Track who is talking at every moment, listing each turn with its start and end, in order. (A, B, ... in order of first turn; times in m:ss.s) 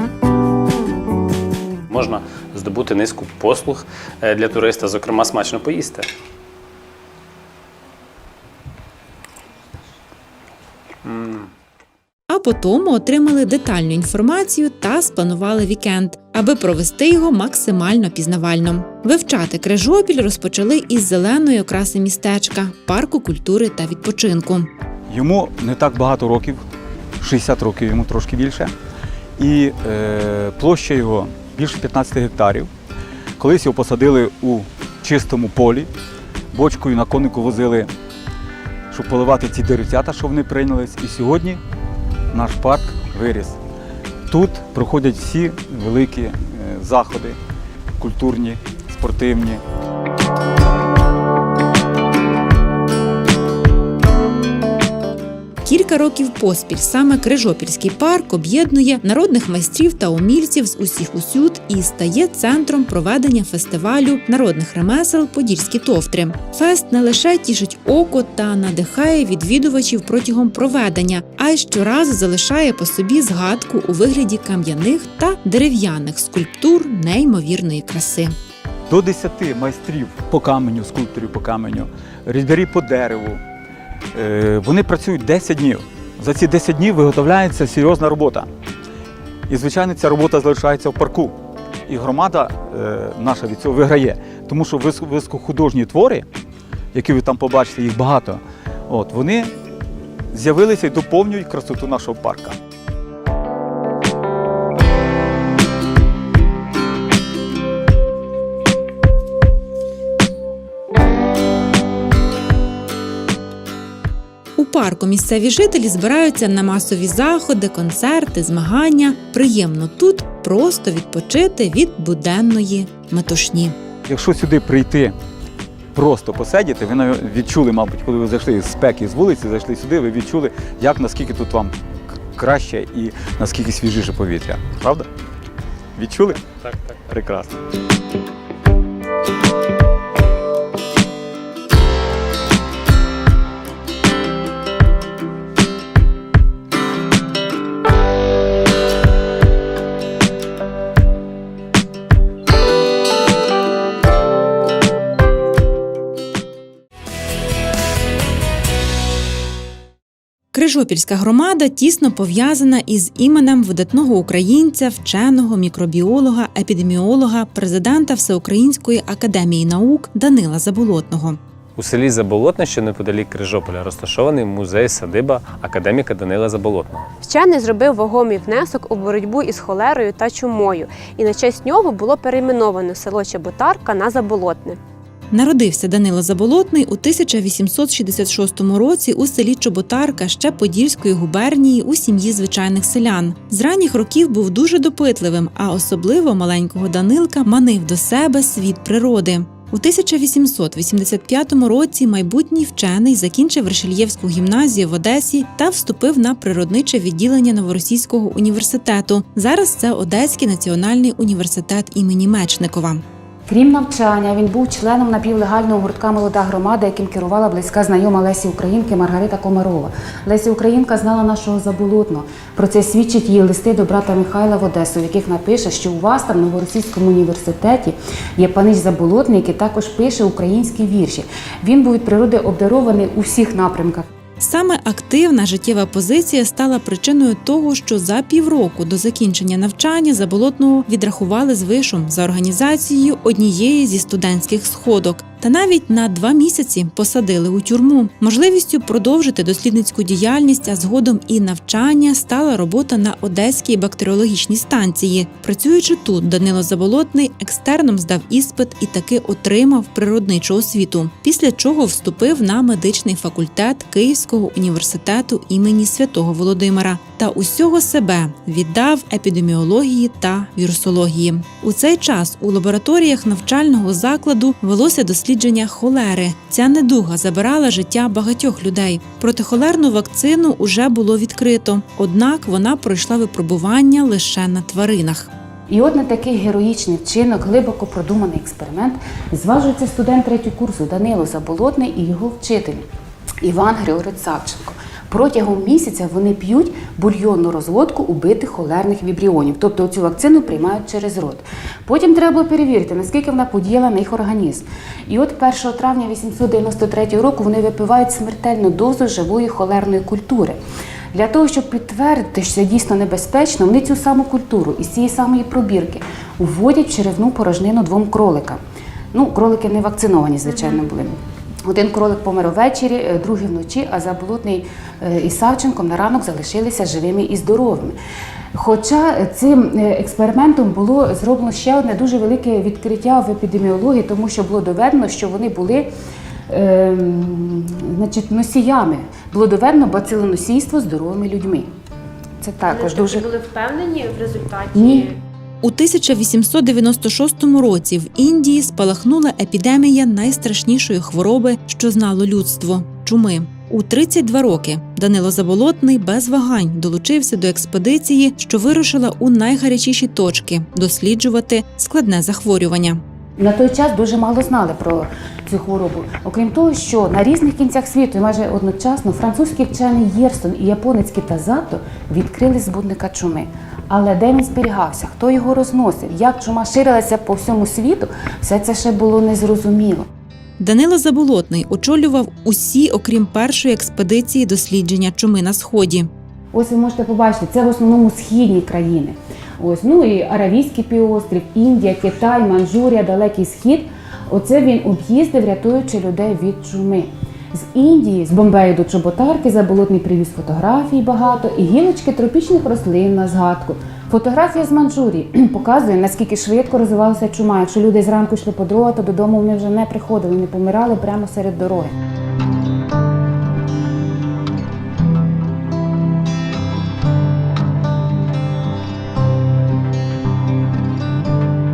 0:01.9-0:06.1 A
0:11.0-0:11.5 A
0:12.3-0:24.7 B
0:25.1-0:26.6 C
0:27.2-0:28.7 C
0:29.4-0:32.7 C
0:33.4-0:35.9 C
0:36.5-0:37.9 C
0:38.9-0:41.6 C
0:42.3-0:43.6 C
0:44.3-0:47.4 C
0:48.0-0:49.6 C
0:55.6-1:18.3 B
1:18.9-1:23.4 C
1:24.1-1:28.5 C
1:29.5-1:31.4 C
1:31.9-1:36.3 C
1:36.9-1:39.5 C
1:40.3-1:42.6 C
1:54.6-2:03.8 B
2:04.0-2:05.2 C
2:05.9-2:15.1 C
2:16.0-2:17.6 C
2:40.5-2:51.4 B
2:51.8-2:57.1 A
2:57.2-3:04.8 D
3:05.3-3:33.0 B
3:33.5-3:54.1 E
3:54.4-4:45.3 B
4:45.7-4:52.8 E
4:53.4-5:10.6 E
5:11.1-5:18.6 E
5:19.1-5:28.0 E
5:28.5-5:35.9 E
5:36.5-5:41.7 E
5:42.4-5:43.3 E
5:42.6-5:45.2 D
5:44.7-5:45.0 E
5:45.6-6:03.0 B
6:03.4-6:20.1 E
6:20.6-6:26.1 B
6:26.5-6:51.9 E